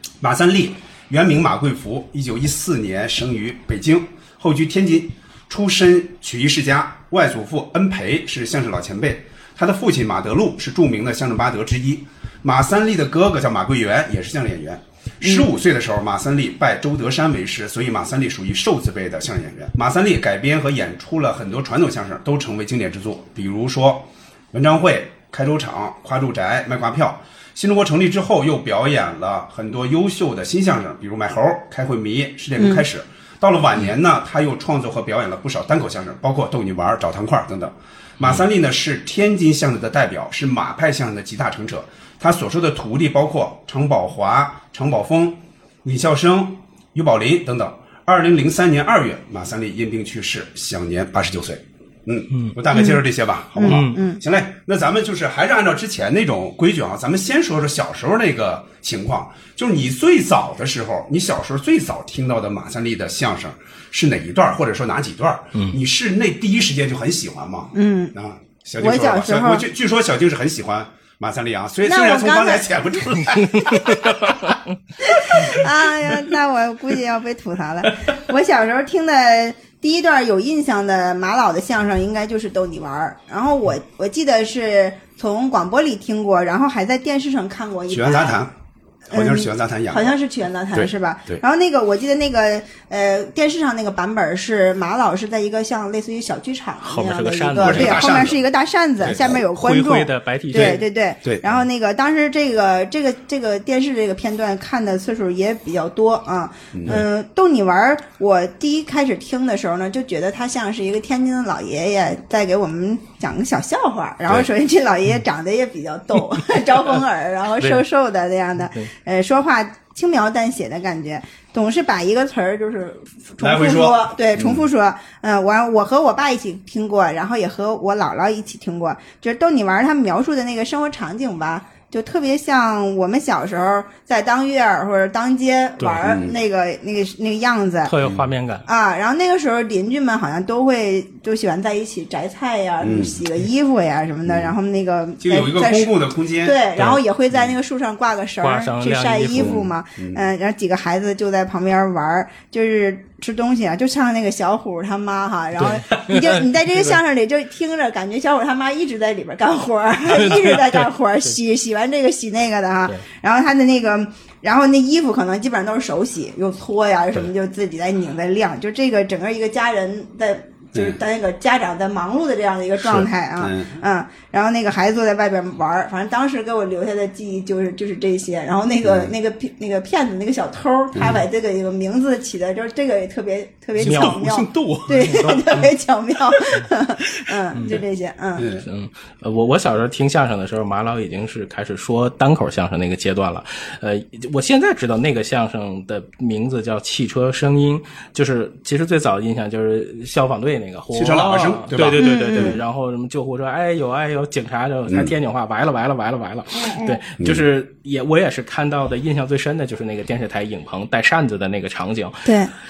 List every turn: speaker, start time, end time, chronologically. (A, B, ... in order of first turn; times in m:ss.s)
0:00.2-1:14.3 A
0:32.6-0:32.8 B
0:38.2-0:38.4 C
0:52.7-0:53.0 B
0:53.6-0:54.2 B
0:53.6-0:54.0 C
1:07.7-1:08.1 B
1:08.8-1:09.6 B
1:11.8-1:12.8 B
1:13.4-1:14.6 C
1:15.0-1:28.4 B
1:27.9-1:28.5 A
1:29.1-1:30.1 A
1:29.1-2:17.9 B
1:30.7-1:31.4 A
1:36.8-1:38.1 C
1:37.6-1:38.4 A
1:39.0-1:39.4 A
1:39.2-1:40.8 C
1:40.5-1:41.6 A
1:46.7-1:47.0 A
1:57.6-1:57.8 C
1:58.6-1:58.9 C
2:03.4-2:04.7 A
2:16.0-2:16.4 A
2:17.8-2:18.6 C
2:18.6-3:08.5 B
2:22.8-2:23.2 A
2:24.2-2:24.6 A
2:25.2-2:26.6 A
2:28.4-2:29.5 C
2:29.3-2:30.2 A
2:35.6-2:37.0 C
2:40.1-2:41.3 C
2:53.4-2:53.8 A
2:58.8-2:59.1 A
3:00.9-3:01.2 A
3:03.8-3:05.5 A
3:03.8-3:04.2 C
3:05.0-3:05.7 C
3:07.5-3:07.8 C
3:08.4-3:08.6 A
3:08.6-3:32.3 C
3:20.9-3:22.6 A
3:22.0-3:22.6 B
3:26.6-3:27.0 B
3:32.2-3:32.5 B